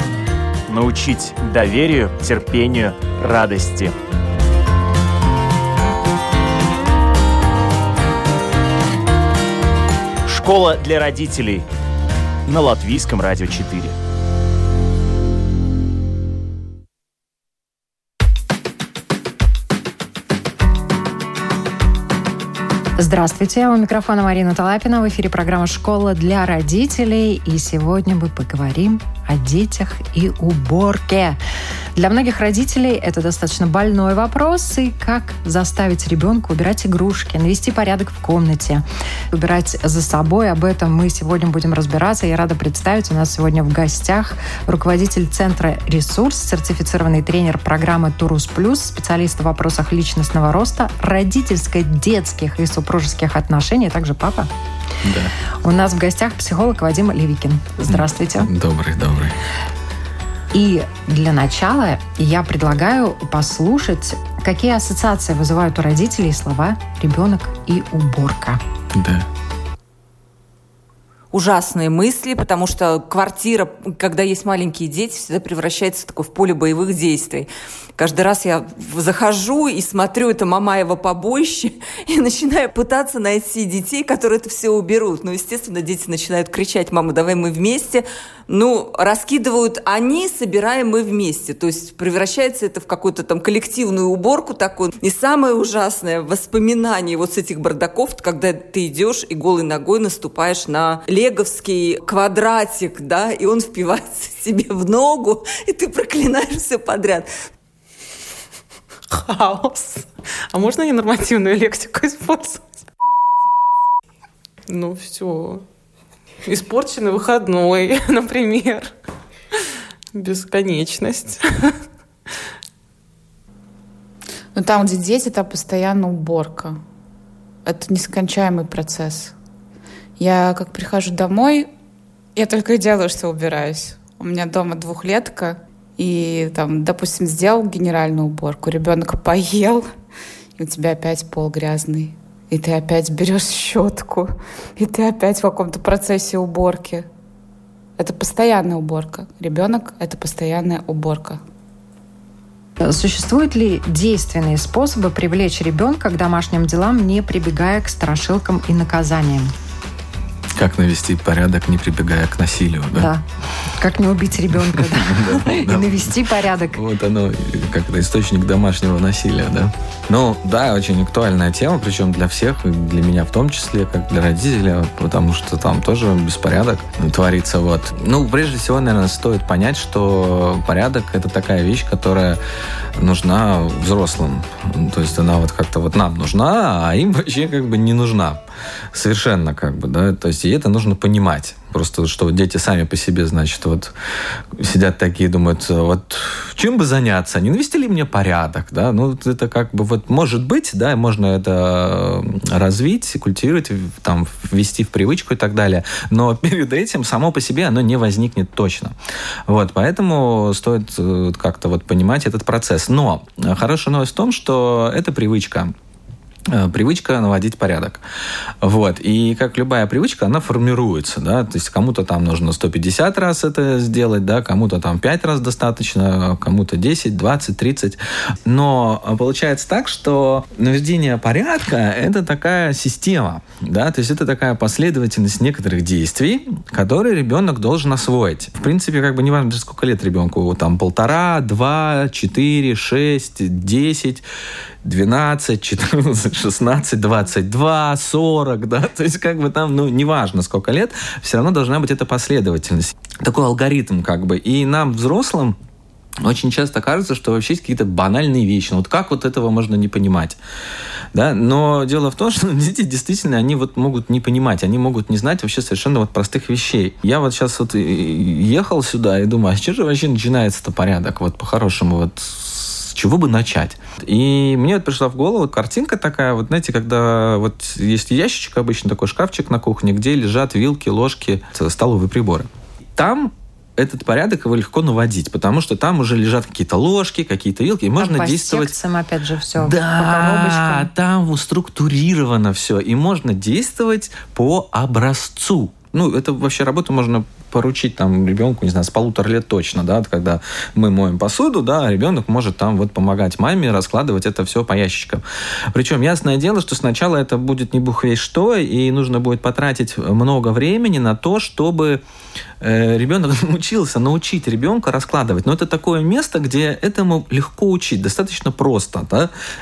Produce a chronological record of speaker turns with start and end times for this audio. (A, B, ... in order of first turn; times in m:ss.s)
0:00.7-0:03.9 A
0:10.3-0:11.7 A
0:12.5-0:14.0 A
0:23.0-0:31.4 B
0:32.0-0:54.5 B
0:55.0-0:55.3 C
0:55.6-0:58.5 B
0:57.9-0:59.4 C
1:00.5-1:08.6 B
1:08.9-1:09.3 C
1:11.3-1:47.3 D
1:49.1-1:52.7 E
1:54.7-1:55.6 E
1:56.4-1:59.0 E
2:00.1-2:01.8 E
2:04.6-2:06.8 F
2:07.6-2:09.4 F
2:10.2-2:11.7 F
2:12.4-2:19.9 F
2:20.6-2:27.1 F
2:28.0-2:31.4 F
2:32.8-2:39.5 B
2:40.6-2:43.1 C
2:43.0-2:43.2 B
2:43.8-2:46.8 B
2:44.5-3:02.4 C
3:03.0-3:13.9 C
3:14.6-3:29.0 C
3:29.5-3:35.7 C
3:36.5-3:38.0 C
3:38.6-4:04.2 C
4:04.8-4:15.6 C
4:16.2-4:20.4 C
4:21.1-4:48.8 C
4:48.0-4:50.9 B
4:49.6-5:12.0 C
5:12.6-5:19.3 C